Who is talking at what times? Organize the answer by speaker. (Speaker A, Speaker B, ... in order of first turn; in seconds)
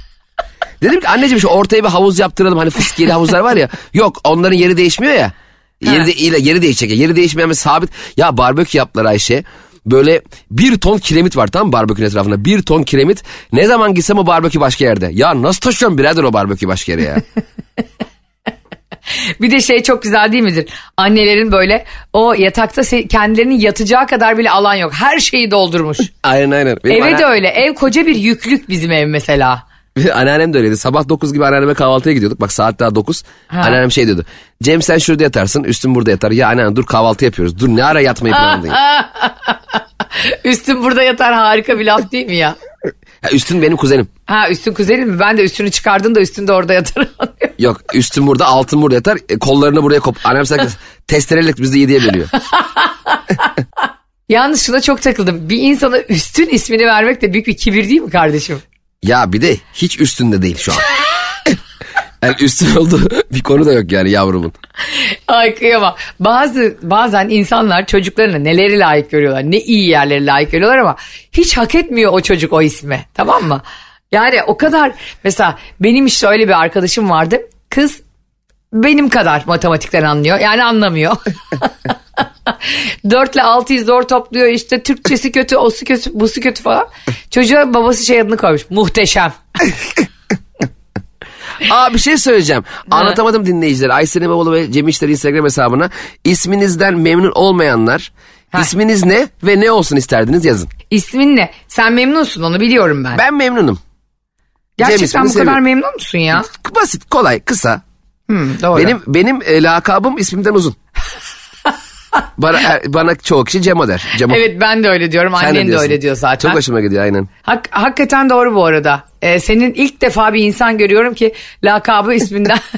Speaker A: 0.8-17.2, 26.2-27.3, 29.9-38.8, 43.2-44.1, 47.6-52.3, 59.0-60.9, 62.2-64.5, 91.6-100.7, 103.1-103.8, 104.8-105.6, 106.4-107.8, 108.7-110.8, 112.4-114.4, 115.4-117.3
Speaker B: 19.4-26.1, 26.9-29.6, 33.5-33.8, 38.3-42.5, 44.3-47.5, 52.5-53.4, 54.3-58.6, 64.9-78.0, 78.7-81.7, 82.5-89.3, 92.9-93.2, 100.9-103.2, 104.8-106.5, 108.3-109.0, 114.2-116.6, 117.4-122.6